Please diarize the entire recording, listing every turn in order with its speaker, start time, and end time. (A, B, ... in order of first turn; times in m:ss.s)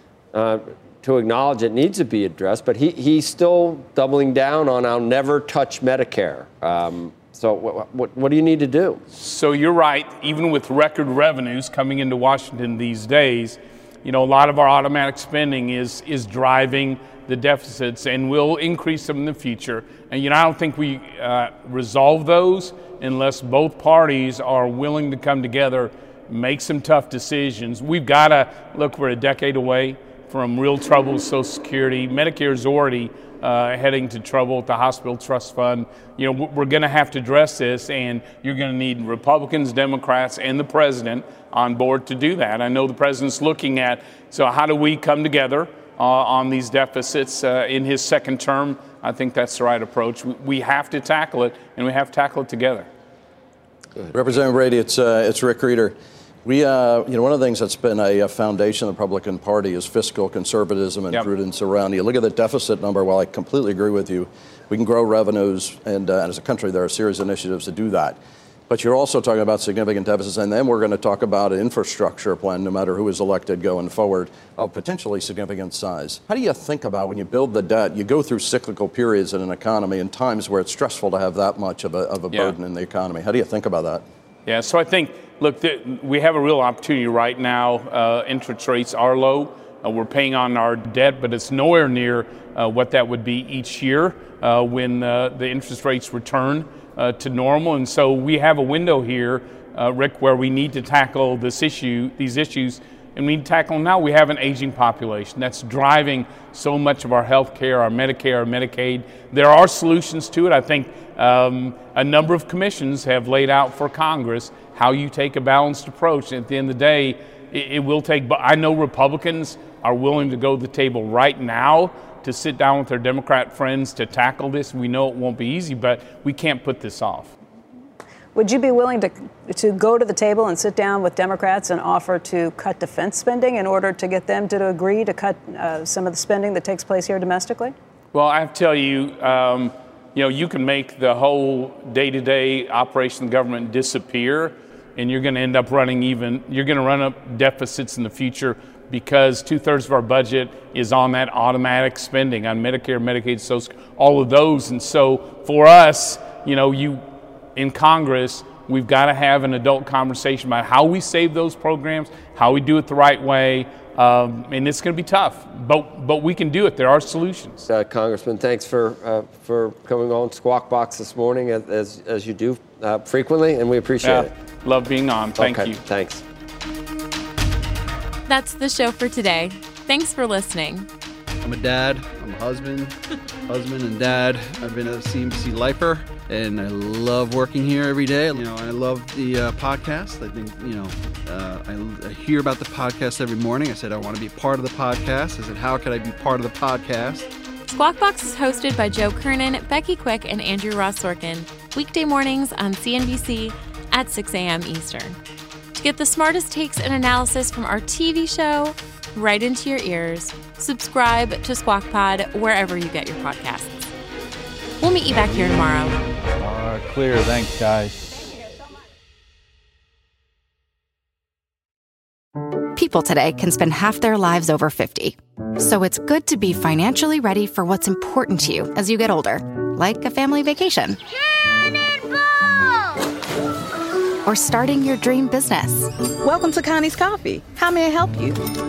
0:00.3-0:09.0 A
0:09.1-0:52.9 B
0:54.1-1:24.0 C
1:24.5-2:07.3 B
2:08.4-2:17.7 D
2:18.1-2:37.0 B
2:37.6-2:47.6 B
2:47.7-2:54.3 A
2:54.0-2:55.8 B
2:55.4-2:56.2 A
2:58.3-3:00.9 E
3:01.4-3:02.9 F
3:03.5-3:17.3 F
3:17.7-3:25.2 E
3:25.8-3:33.9 E
3:34.8-3:36.0 E
3:36.4-3:38.3 G
3:42.8-3:51.0 H
3:54.2-3:55.9 H
3:56.2-3:58.4 I